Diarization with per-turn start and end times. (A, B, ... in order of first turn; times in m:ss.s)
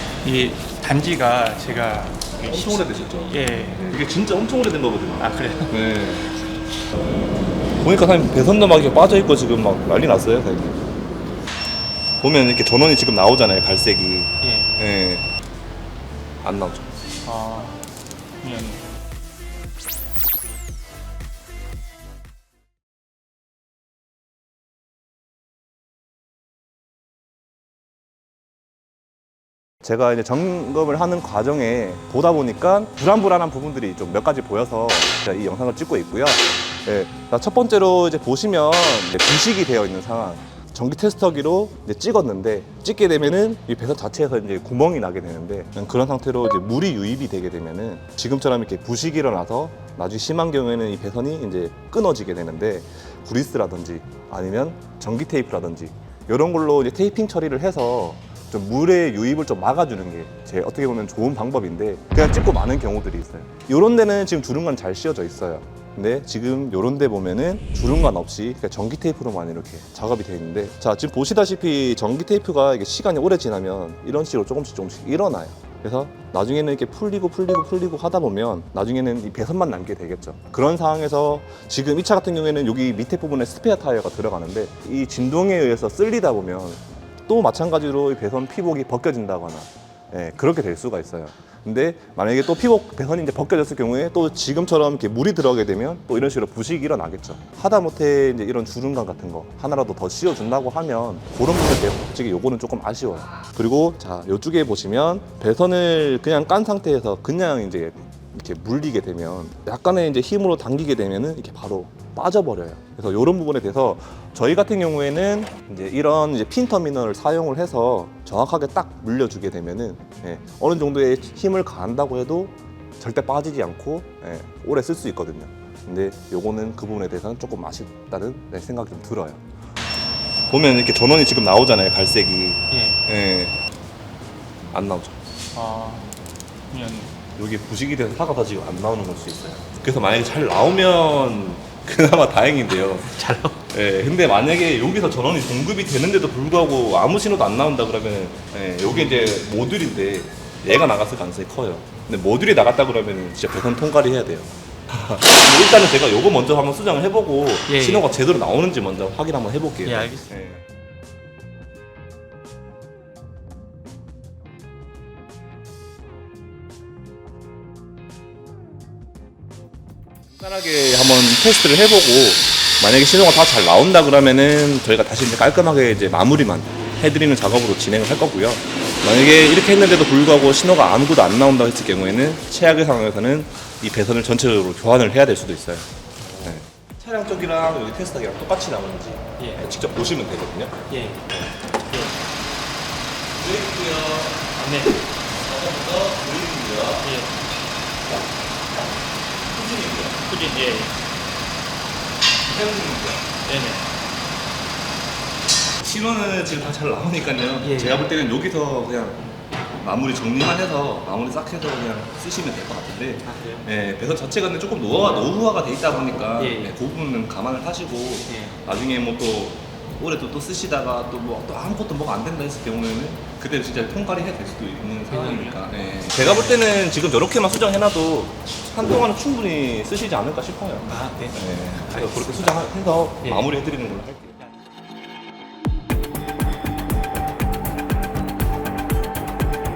0:00.2-0:03.9 A
0:02.4-0:06.3 B
0:05.2-0:05.7 A
0:07.8-0:10.8 B
0:12.2-0:15.3 B
0:14.4-0:14.7 A
0:16.4-0:16.9 B
0:17.2-0:17.8 A
0:18.4-0:18.8 A
0:29.8-2:09.4 B
2:10.5-2:13.5 B
2:12.7-2:13.0 A
2:14.7-2:15.2 B
2:15.5-2:16.1 A
2:16.7-2:17.1 A
2:17.3-2:40.6 B
2:23.1-2:23.6 A
2:37.7-2:38.1 A
2:39.8-2:40.4 A
2:50.3-3:05.9 B
3:06.4-3:10.8 B
3:10.9-3:11.3 A
3:13.3-3:14.4 B
3:14.6-3:15.0 A
3:15.3-3:17.1 B
3:17.0-3:17.4 A
3:19.5-3:20.2 B
3:20.2-3:20.9 A
3:22.4-3:23.3 B
3:23.4-3:23.8 A
3:25.8-3:29.2 B
3:27.6-3:28.1 A
3:29.8-3:54.4 B
3:33.2-3:33.7 A
3:36.4-3:36.8 A
3:38.3-3:38.6 A
3:45.1-3:45.6 A
3:46.2-3:46.6 A
3:50.8-3:52.5 A
3:53.2-3:53.5 A